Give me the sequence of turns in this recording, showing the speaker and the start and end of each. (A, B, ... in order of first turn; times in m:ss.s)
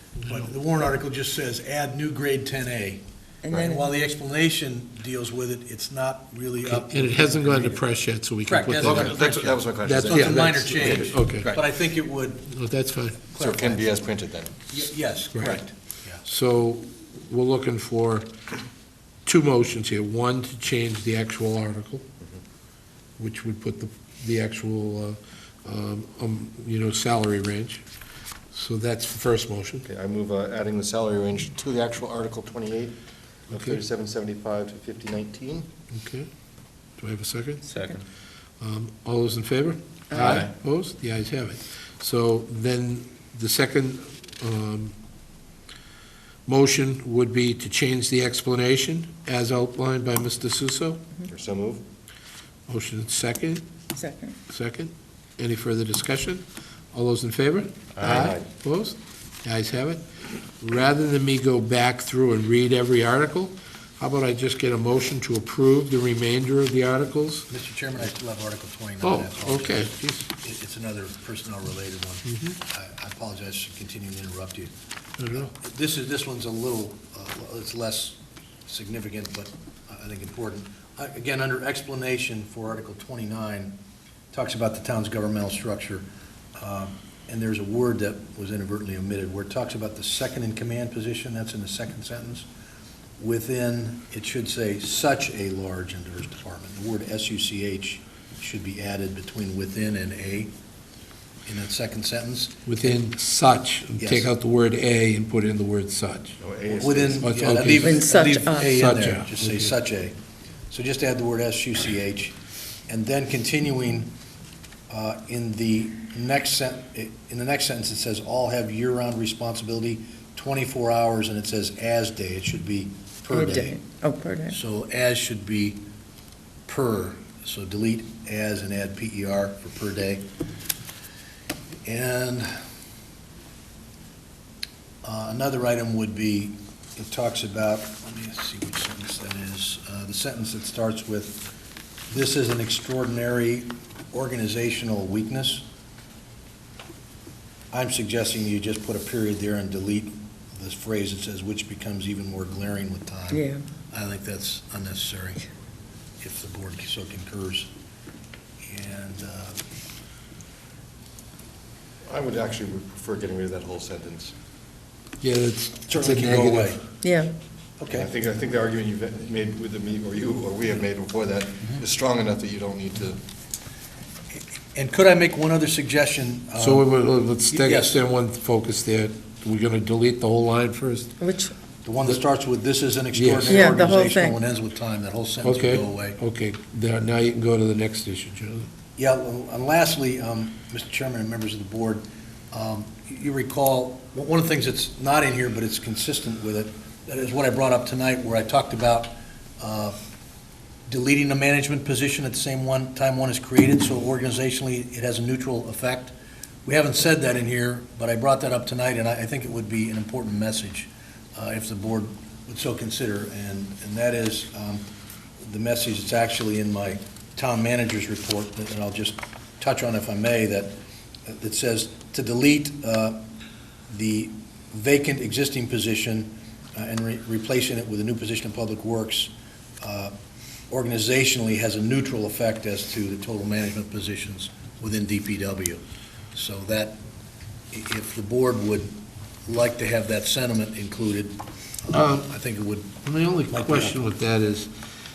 0:00.2-0:03.0 A
0:03.4-0:03.8 B
0:03.5-0:03.8 C
0:03.5-0:07.9 A
0:06.6-0:09.2 D
0:08.4-0:12.5 A
0:08.8-0:11.6 C
0:09.8-0:11.5 D
0:12.5-0:13.3 D
0:13.3-0:14.0 A
0:13.4-0:14.7 C
0:14.7-0:16.2 A
0:15.3-0:15.6 D
0:16.2-0:18.3 D
0:19.2-0:22.0 D
0:23.2-0:27.8 D
0:28.5-0:29.9 D
0:29.9-0:33.0 C
0:33.5-0:35.7 C
0:33.5-0:33.8 D
0:35.9-0:36.3 D
0:37.0-0:37.7 D
0:37.7-0:38.0 C
0:38.6-0:44.9 D
0:40.1-0:40.4 B
0:40.2-0:40.5 C
0:46.5-0:51.1 D
0:51.3-0:51.8 C
0:52.7-0:53.6 D
0:53.9-0:54.4 B
0:54.5-1:00.0 D
0:58.0-0:58.4 C
1:00.6-1:07.5 D
1:07.5-1:14.7 A
1:09.0-1:10.2 D
1:12.3-1:12.5 D
1:15.2-1:15.5 D
1:15.3-1:23.8 A
1:24.3-1:32.5 A
1:33.2-1:40.5 A
1:41.4-1:43.0 A
1:42.6-1:46.4 D
1:44.0-1:44.3 A
1:46.4-1:47.3 C
1:46.7-1:50.1 A
1:47.2-1:48.0 D
1:47.8-1:48.7 B
1:48.6-1:49.7 D
1:50.7-1:54.1 A
1:54.9-2:03.8 A
2:03.3-2:04.6 B
2:04.5-2:05.8 A
2:06.6-2:10.2 A
2:11.8-2:12.5 A
2:15.0-2:21.4 A
2:22.1-2:25.6 A
2:27.7-2:35.4 A
2:33.3-2:33.6 B
2:36.2-2:37.7 A
2:38.6-2:39.6 A
2:42.0-2:44.3 C
2:45.2-2:46.8 D
2:45.9-2:46.8 A
2:47.0-2:47.3 B
2:47.8-2:48.1 A
2:47.9-2:53.2 C
2:54.3-2:56.9 A
2:56.6-3:01.2 D
2:57.5-2:58.0 A
3:01.2-3:01.5 B
3:01.8-3:06.2 A
3:03.1-3:03.7 D
3:03.5-3:04.4 B
3:05.4-3:08.7 D
3:09.0-3:20.0 A
3:20.9-3:26.1 A
3:26.6-3:34.8 A
3:35.4-3:43.3 A
3:43.9-3:50.1 A
3:50.7-3:55.8 A
3:56.3-3:57.0 A
3:57.7-3:58.9 A
3:59.4-4:03.0 A
4:01.9-4:02.3 D
4:03.0-4:04.7 D
4:03.5-4:04.0 A